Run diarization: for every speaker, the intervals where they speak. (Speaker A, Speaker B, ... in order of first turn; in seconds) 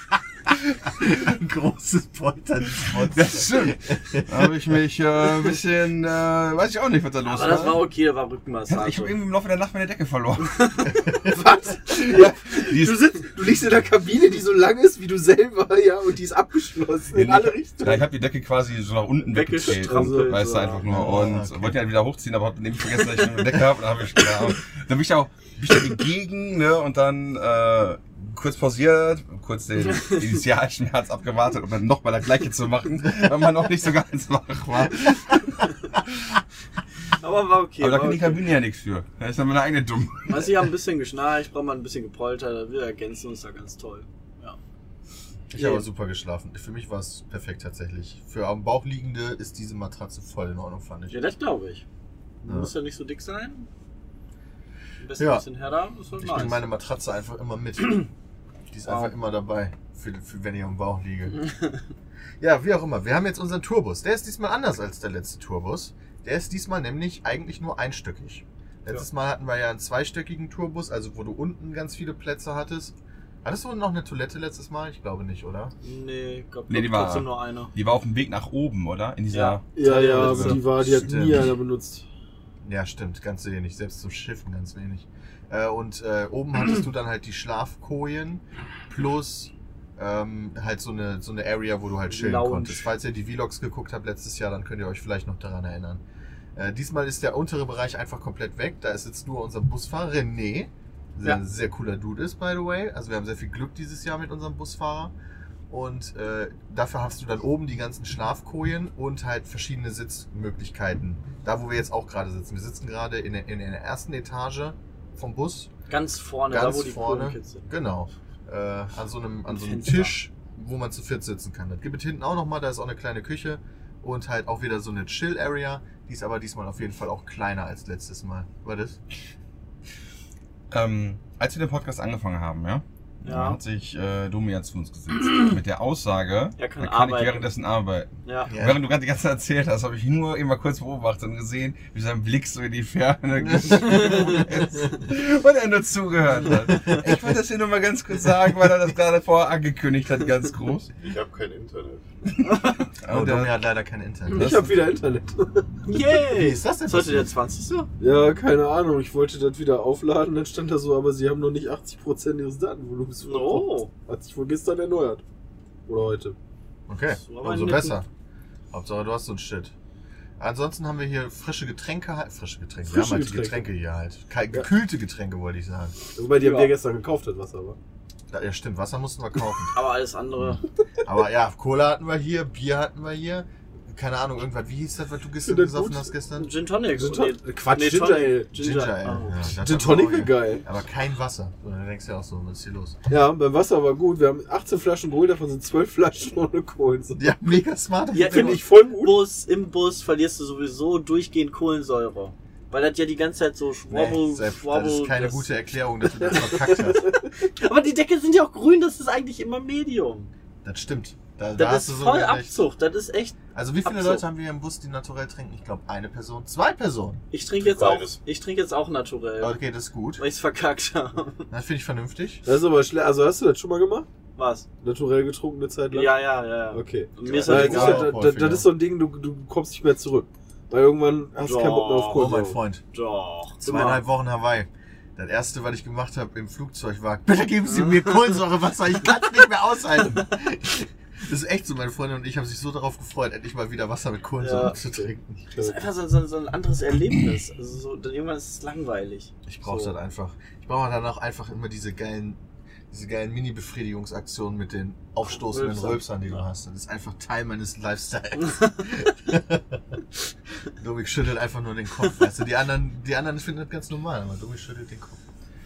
Speaker A: 1.0-4.5, 20.9-21.8, 45.5-51.2, 52.5-52.7, 55.2-55.5, 56.2-58.1, 58.7-61.4, 62.4-75.7, 80.8-81.5, 82.6-96.0, 96.5-105.1, 105.7-115.7, 116.5-129.0, 138.5-138.8, 143.4-144.4, 153.1-154.5, 156.3-157.3, 166.9-168.1, 168.7-169.7, 170.4-176.0, 178.3-179.7, 180.4-186.5, 188.5-193.0, 197.2-198.6, 203.9-207.1, 210.6-212.6, 213.5-217.2, 219.4-220.2, 221.5-222.4, 227.3-228.7, 232.1-232.8, 233.6-245.5, 249.4-259.8, 260.8-265.2
Speaker B: 3.1-7.8, 8.7-10.9, 11.9-13.2, 17.1-36.4, 37.8-40.7, 76.7-80.6, 130.7-150.9, 153.0-153.6, 154.3-154.7
Speaker C: 7.2-9.1, 10.5-10.9, 19.2-20.8, 29.9-30.2, 37.2-38.4, 40.3-44.6, 45.5-45.8, 51.1-51.8, 52.4-53.7, 55.0-56.6, 58.9-59.1, 75.8-77.7, 79.3-80.6, 92.1-92.9, 115.9-117.7, 119.5-120.2, 133.2-133.6, 136.6-137.5, 138.2-138.5, 152.5-152.8, 155.9-157.9, 163.2-163.9, 167.2-168.0, 176.3-176.7, 179.7-180.6, 186.3-189.4, 198.1-205.4, 207.1-210.3, 211.6-214.2, 217.3-219.6, 220.2-221.5, 224.3-224.7, 225.9-228.1, 231.3-232.2, 232.9-234.0, 237.7-238.3, 244.4-245.1, 245.6-249.9, 255.3-256.4
Speaker D: 11.3-18.1, 19.7-20.8, 79.7-82.0, 154.3-155.9, 158.0-165.2, 165.9-166.3, 172.8-173.7, 176.2-177.8, 185.4-186.1, 187.0-188.5, 189.6-190.6, 193.1-197.2, 198.2-199.2, 222.4-224.1, 224.8-232.6, 245.5-245.8
Speaker E: 151.0-152.0, 217.6-218.2, 227.2-227.6